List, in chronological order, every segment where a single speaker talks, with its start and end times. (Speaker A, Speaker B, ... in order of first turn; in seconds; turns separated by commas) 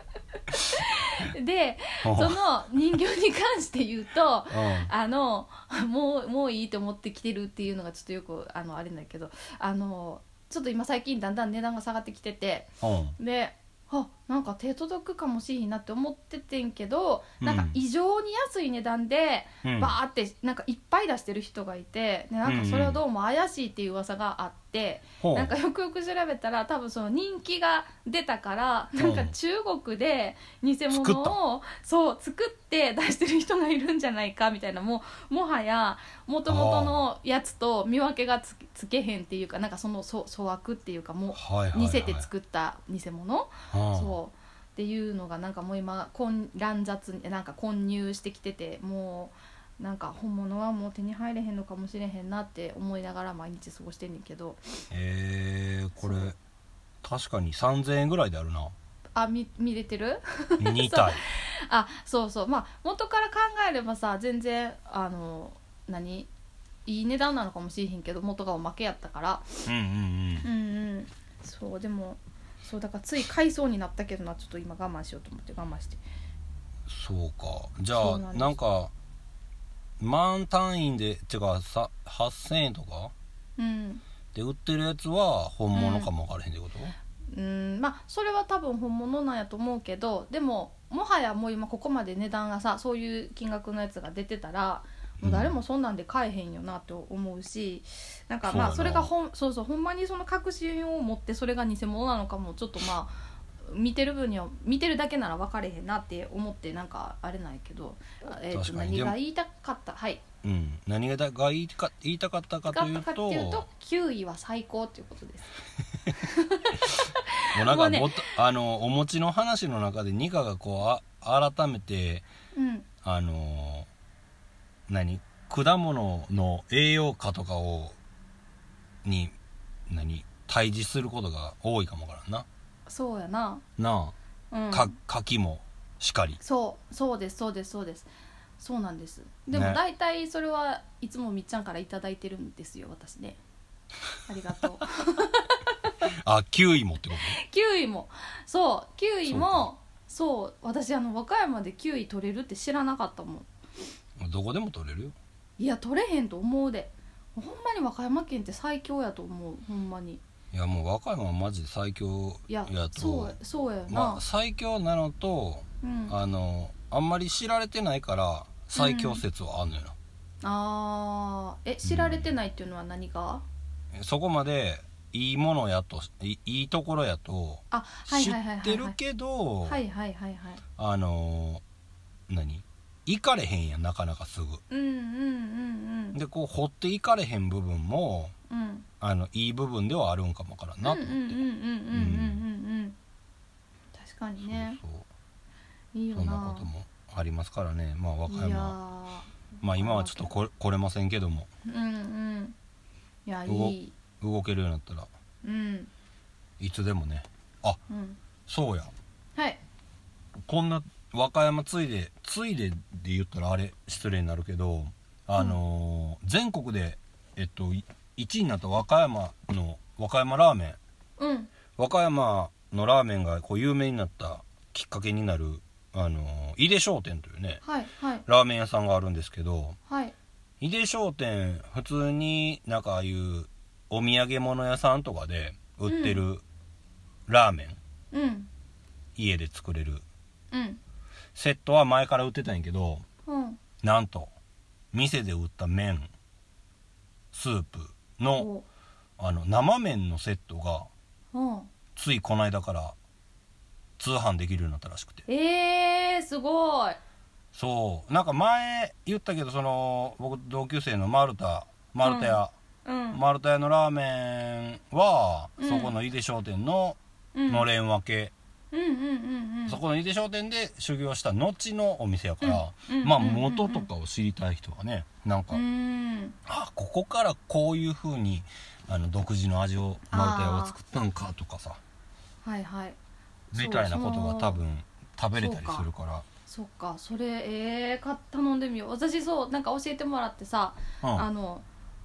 Speaker A: 0.5-54.6, Speaker B: 2.0-2.4, Speaker B: 4.5-4.9, Speaker B: 12.8-13.2, Speaker B: 17.4-17.8, Speaker B: 19.6-19.9, Speaker B: 22.4-23.0, Speaker B: 25.2-25.6, Speaker B: 29.0-29.3, Speaker B: 30.9-31.4, Speaker B: 36.5-37.0, Speaker B: 41.3-42.3, Speaker B: 43.7-44.1, Speaker B: 54.9-56.4, Speaker A: 56.0-56.3, Speaker B: 57.0-58.7, Speaker A: 59.1-66.3, Speaker B: 60.6-61.2, Speaker A: 66.9-69.5, Speaker B: 69.7-70.5, Speaker A: 70.4-76.0, Speaker B: 76.9-78.9, Speaker A: 77.9-78.6, Speaker B: 80.0-83.1, Speaker A: 83.6-84.0, Speaker B: 84.3-87.0, Speaker A: 85.7-86.1, Speaker A: 87.3-110.2, Speaker B: 95.2-95.5, Speaker B: 98.5-99.1, Speaker B: 108.5-109.2, Speaker B: 110.4-113.7, Speaker A: 112.7-115.5, Speaker A: 116.2-118.1, Speaker B: 117.5-122.3, Speaker A: 122.5-122.9, Speaker B: 123.0-123.9, Speaker B: 124.9-128.0, Speaker B: 129.1-129.4, Speaker B: 129.9-132.5, Speaker A: 132.9-133.6, Speaker B: 133.8-134.1, Speaker A: 134.5-134.9, Speaker B: 134.7-136.4, Speaker A: 136.4-143.4, Speaker B: 139.5-139.8, Speaker A: 144.3-145.9, Speaker B: 146.2-147.4, Speaker A: 147.3-153.5, Speaker B: 149.3-149.7, Speaker B: 154.2-155.2, Speaker A: 155.6-160.2, Speaker B: 160.5-163.4, Speaker A: 162.5-164.2, Speaker B: 163.9-169.9, Speaker A: 165.8-166.2, Speaker A: 168.7-169.2, Speaker A: 170.4-173.4, Speaker B: 171.8-172.3, Speaker B: 173.9-179.8, Speaker A: 177.7-179.0, Speaker A: 179.7-180.6, Speaker B: 180.8-181.6, Speaker B: 182.3-184.6, Speaker A: 184.7-186.2, Speaker B: 186.1-188.3, Speaker A: 188.5-188.9, Speaker B: 189.0-192.4, Speaker A: 190.8-193.0, Speaker A: 193.9-194.8, Speaker B: 194.4-195.1, Speaker A: 195.9-196.7, Speaker B: 196.1-198.8, Speaker A: 198.3-200.3, Speaker B: 199.6-201.5, Speaker A: 201.7-202.6, Speaker A: 203.3-204.0, Speaker B: 203.5-205.1, Speaker A: 205.4-205.9, Speaker B: 206.6-207.8, Speaker A: 207.9-208.2, Speaker B: 208.5-208.9, Speaker A: 209.4-209.6, Speaker B: 210.5-220.8, Speaker A: 221.2-221.5, Speaker B: 221.8-227.6, Speaker A: 227.6-228.2, Speaker B: 228.3-229.8, Speaker A: 229.9-230.2, Speaker B: 230.6-236.4, Speaker A: 235.9-236.2, Speaker B: 237.3-237.8, Speaker A: 238.1-238.5, Speaker B: 239.2-240.0, Speaker A: 240.5-240.8, Speaker B: 241.3-243.1, Speaker A: 243.3-243.6, Speaker B: 243.8-244.3, Speaker B: 244.9-246.1, Speaker B: 247.3-248.5, Speaker A: 248.4-248.7, Speaker B: 249.2-250.9, Speaker A: 251.3-251.7, Speaker B: 252.0-253.0, Speaker B: 254.0-255.2, Speaker A: 255.3-257.0, Speaker B: 257.5-262.5, Speaker A: 262.0-263.2, Speaker B: 263.1-268.3, Speaker A: 265.6-265.9, Speaker A: 267.3-267.7, Speaker A: 268.7-269.8, Speaker B: 269.7-275.6, Speaker A: 272.4-273.9, Speaker A: 275.5-276.4, Speaker B: 276.5-281.8, Speaker A: 280.1-280.8, Speaker A: 282.4-283.0, Speaker B: 283.5-286.2, Speaker A: 283.6-284.6, Speaker A: 285.4-285.9, Speaker A: 286.5-291.6